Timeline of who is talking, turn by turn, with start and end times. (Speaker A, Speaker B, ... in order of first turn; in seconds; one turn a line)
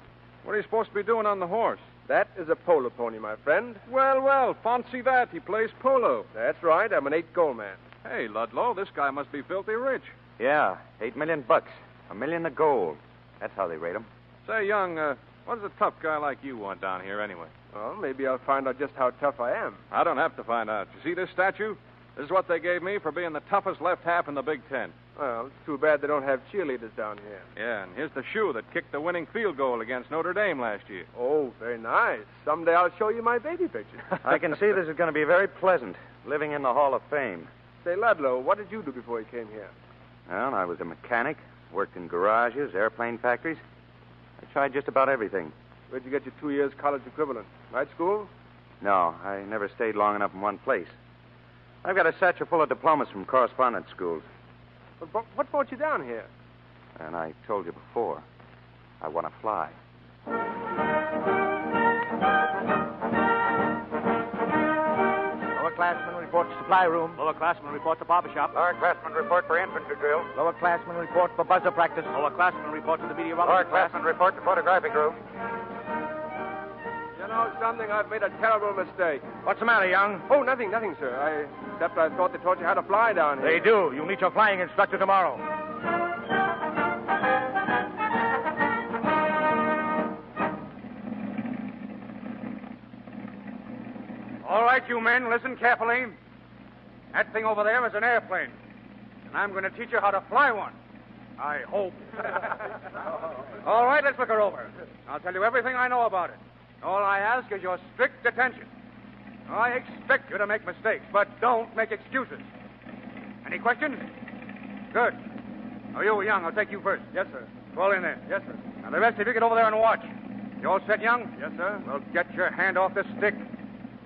Speaker A: 0.4-1.9
Speaker B: 2.1-3.8
Speaker A: 3.9-6.3
Speaker B: 6.3-7.8
Speaker A: 8.0-10.1
Speaker C: 10.4-14.1
Speaker A: 14.4-17.5
Speaker B: 17.7-19.8
Speaker A: 19.9-24.9
Speaker B: 25.2-27.4
Speaker A: 27.6-31.1
Speaker B: 31.1-34.2
Speaker C: 34.2-37.5
Speaker B: 37.8-39.7
Speaker C: 40.3-43.6
Speaker C: 44.4-45.5
Speaker B: 45.9-48.3
Speaker C: 48.8-51.0
Speaker C: 51.8-54.2
Speaker B: 55.0-56.3
Speaker C: 57.0-58.2
Speaker C: 59.0-59.8
Speaker D: 65.5-68.5
Speaker D: 70.3-74.1
Speaker B: 77.2-79.3
Speaker D: 79.4-80.3
Speaker B: 80.3-83.6
Speaker D: 83.4-85.4
Speaker E: 94.4-96.2
Speaker E: 97.1-98.5
Speaker E: 99.3-100.8
Speaker E: 101.4-102.6
Speaker E: 103.6-108.7
Speaker E: 109.5-112.5
Speaker E: 113.4-114.0
Speaker E: 114.9-115.2
Speaker E: 115.9-117.1
Speaker B: 117.1-117.5
Speaker E: 117.6-118.2
Speaker B: 118.3-118.6
Speaker E: 118.8-120.1
Speaker E: 120.6-121.3
Speaker B: 121.4-121.8
Speaker E: 121.8-123.5